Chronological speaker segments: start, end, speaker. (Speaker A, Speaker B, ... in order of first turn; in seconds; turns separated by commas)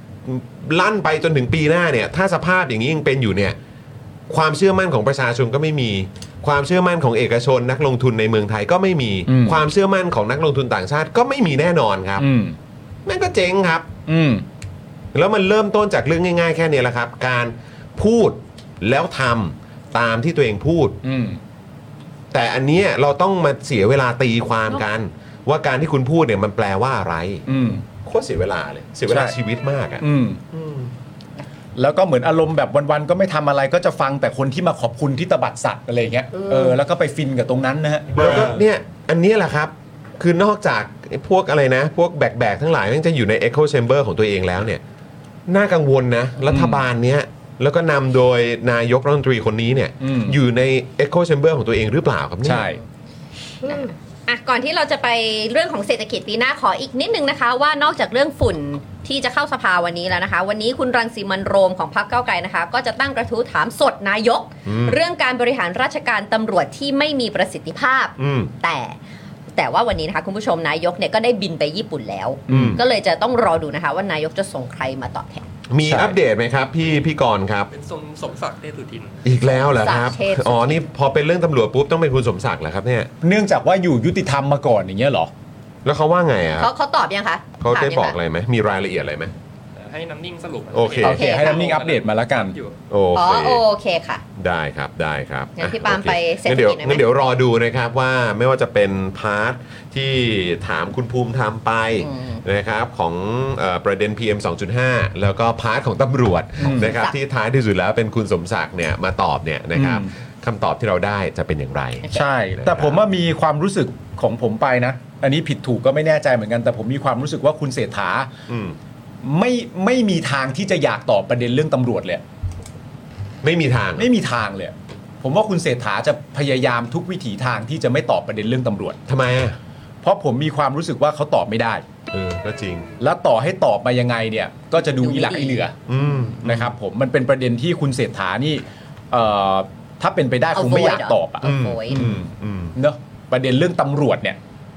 Speaker A: 0.2-3.6, Speaker A: 4.3-12.3, Speaker B: 9.3-9.6, Speaker B: 12.2-12.6, Speaker A: 13.1-13.9, Speaker B: 14.1-14.4, Speaker A: 15.1-21.0, Speaker B: 21.0-21.4, Speaker A: 22.3-27.4, Speaker B: 27.5-27.8, Speaker A: 28.0-30.9, Speaker B: 29.1-29.3, Speaker B: 30.0-30.4, Speaker B: 31.8-38.2, Speaker A: 38.1-44.8, Speaker A: 45.5-52.7, Speaker B: 46.5-46.8, Speaker B: 50.0-50.4, Speaker B: 52.4-52.8, Speaker C: 53.6-69.0, Speaker A: 64.7-65.0, Speaker A: 68.2-68.5, Speaker C: 69.5-75.5, Speaker B: 72.5-72.8, Speaker A: 72.5-72.8, Speaker A: 75.7-77.7, Speaker B: 75.8-76.1, Speaker D: 77.7-79.2, Speaker A: 79.2-83.1, Speaker C: 79.5-80.9, Speaker B: 83.2-85.3, Speaker A: 85.8-86.7, Speaker C: 86.6-88.2, Speaker A: 87.6-89.3, Speaker D: 89.8-92.8, Speaker A: 90.7-91.2, Speaker B: 91.0-92.6, Speaker C: 91.0-91.7, Speaker A: 92.9-93.6, Speaker C: 93.1-94.2, Speaker A: 94.4-112.0, Speaker C: 95.6-97.0, Speaker C: 102.0-102.4, Speaker B: 106.6-106.9, Speaker C: 106.6-107.1, Speaker B: 109.8-110.1, Speaker B: 112.1-118.3, Speaker A: 112.6-113.0, Speaker A: 118.5-118.8, Speaker B: 119.2-122.2, Speaker A: 123.4-124.1, Speaker B: 124.0-129.0, Speaker A: 129.1-129.6, Speaker B: 130.0-131.8, Speaker A: 132.1-132.9, Speaker B: 133.0-135.7, Speaker C: 135.0-135.6, Speaker A: 135.9-136.7, Speaker B: 136.4-144.4, Speaker C: 140.5-142.0, Speaker A: 141.4-142.7